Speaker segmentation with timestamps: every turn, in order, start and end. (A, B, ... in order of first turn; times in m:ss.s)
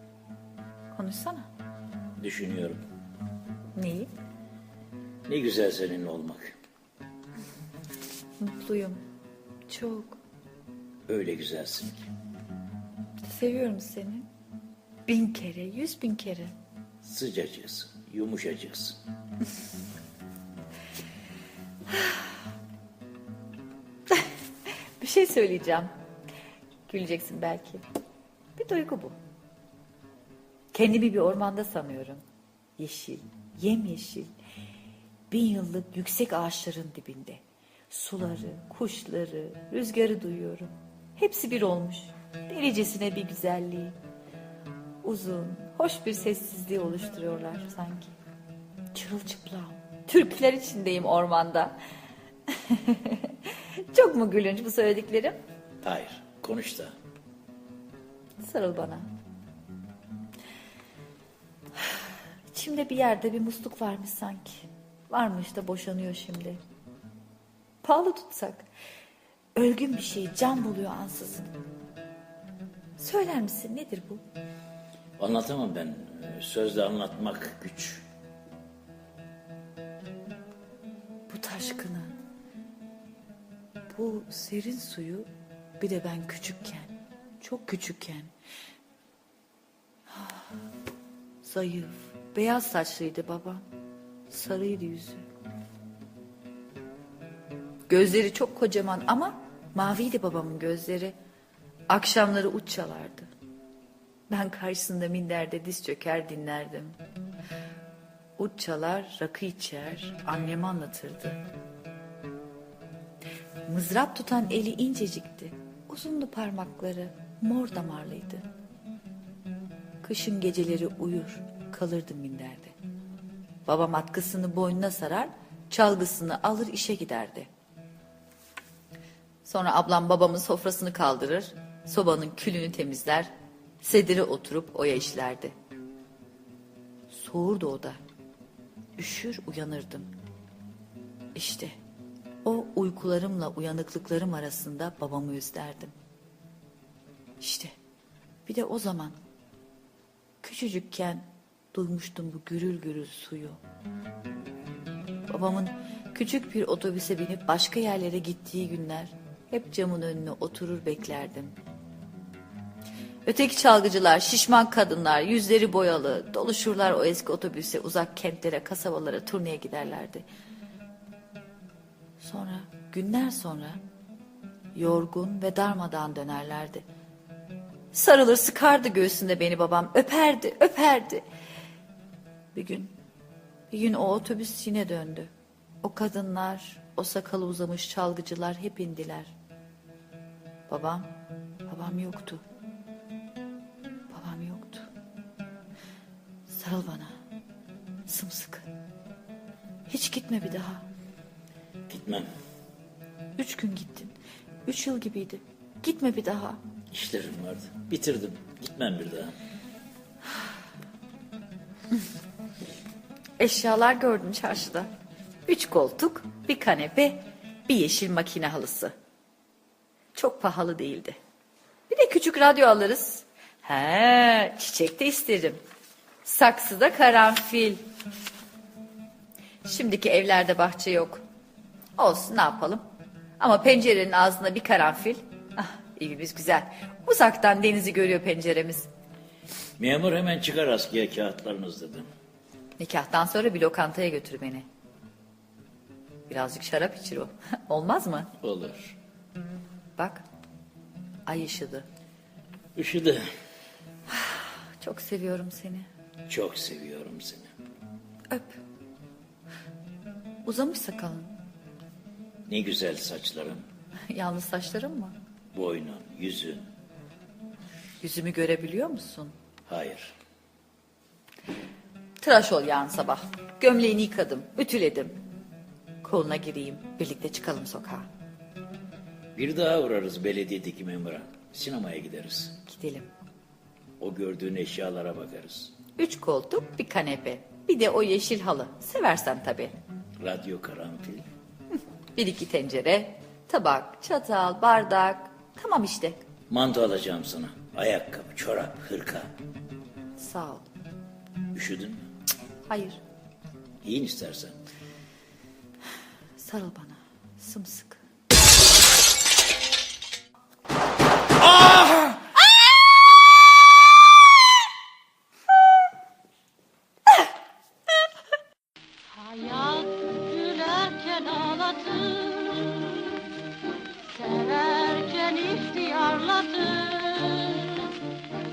0:00.9-0:01.5 A
0:02.2-0:02.8 B
0:03.8-0:04.1 A
0:05.3-0:06.6 B
0:08.4-0:09.0 A
0:09.7-0:10.2 A
0:11.1-0:12.0 B
0:13.2-0:14.3 A
0:15.1-0:16.5 A
0:17.0-0:19.0 B
0:21.9-0:22.2 A
0:25.0-0:25.9 A
0:26.9-0:27.8 A
0:28.6-0:29.2 A
0:30.7-0:32.2 A
0:32.8-0:34.3 A
0:35.3-0:44.0 A
0:45.0-0:48.1 A
0:48.9-0:51.8 A
0:52.5-0:55.4 A
0:55.8-0:56.9 B
0:58.4-0:59.1 A
1:01.8-1:06.6 A
1:07.8-1:08.7 A
1:09.6-1:11.5 A
1:13.0-1:14.2 A
1:15.2-1:18.0 B
1:21.3-1:22.2 A
1:23.9-1:28.3 A
1:30.1-1:30.5 A
1:31.4-1:33.7 A
1:34.3-1:35.3 A
1:37.9-1:41.2 A
1:41.9-1:43.3 A
1:44.3-1:47.0 A
1:48.4-1:51.4 A
1:53.7-1:58.5 A
2:00.0-2:02.8 A
2:03.7-2:07.5 A
2:09.4-2:13.3 A
2:13.8-2:15.5 A
2:17.1-2:18.0 A
2:19.0-2:20.1 A
2:21.4-2:21.8 A
2:22.4-2:26.0 A
2:27.4-2:27.7 A
2:28.5-2:29.2 A
2:30.4-2:33.6 A
2:35.3-2:41.6 A
2:43.3-2:50.2 A
2:52.2-2:53.8 A
2:54.7-2:56.8 A
2:57.9-3:01.2 A
3:02.5-3:02.9 A
3:03.7-3:05.3 A
3:05.8-3:09.3 A
3:10.7-3:11.1 A
3:11.7-3:12.4 A
3:14.1-3:14.9 A
3:16.5-3:17.2 A
3:18.1-3:18.7 A
3:19.9-3:20.8 A
3:21.9-3:22.3 B
3:23.4-3:24.2 A
3:24.7-3:26.6 A
3:26.9-3:29.4 B
3:33.4-3:34.9 A
3:35.5-3:38.9 A
3:40.2-3:41.2 A
3:41.9-3:45.6 A
3:46.2-3:47.8 A
3:49.6-3:51.2 A
3:52.0-3:52.8 A
3:53.4-3:58.9 A
3:59.8-4:02.1 B
4:02.8-4:04.7 A
4:06.3-4:08.3 A
4:08.4-4:09.0 B
4:10.0-4:10.2 A
4:11.3-4:11.9 A
4:12.8-4:13.2 B
4:14.1-4:15.9 A
4:16.3-4:17.5 B
4:18.3-4:18.6 A
4:20.4-4:21.4 A
4:22.5-4:23.6 B
4:24.1-4:25.2 A
4:25.5-4:26.7 B
4:28.0-4:29.4 A
4:29.7-4:30.2 B
4:32.2-4:35.2 A
4:36.0-4:38.1 A
4:39.4-4:42.6 B
4:42.7-4:43.1 A
4:44.0-4:45.7 B
4:46.0-4:49.8 A
4:50.2-4:51.3 B
4:52.2-4:56.2 A
4:56.5-4:59.3 B
5:00.2-5:00.7 A
5:01.5-5:02.1 B
5:02.7-5:03.0 A
5:03.8-5:04.6 B
5:06.4-5:08.0 A
5:19.1-5:23.2 C
5:24.1-5:28.1 C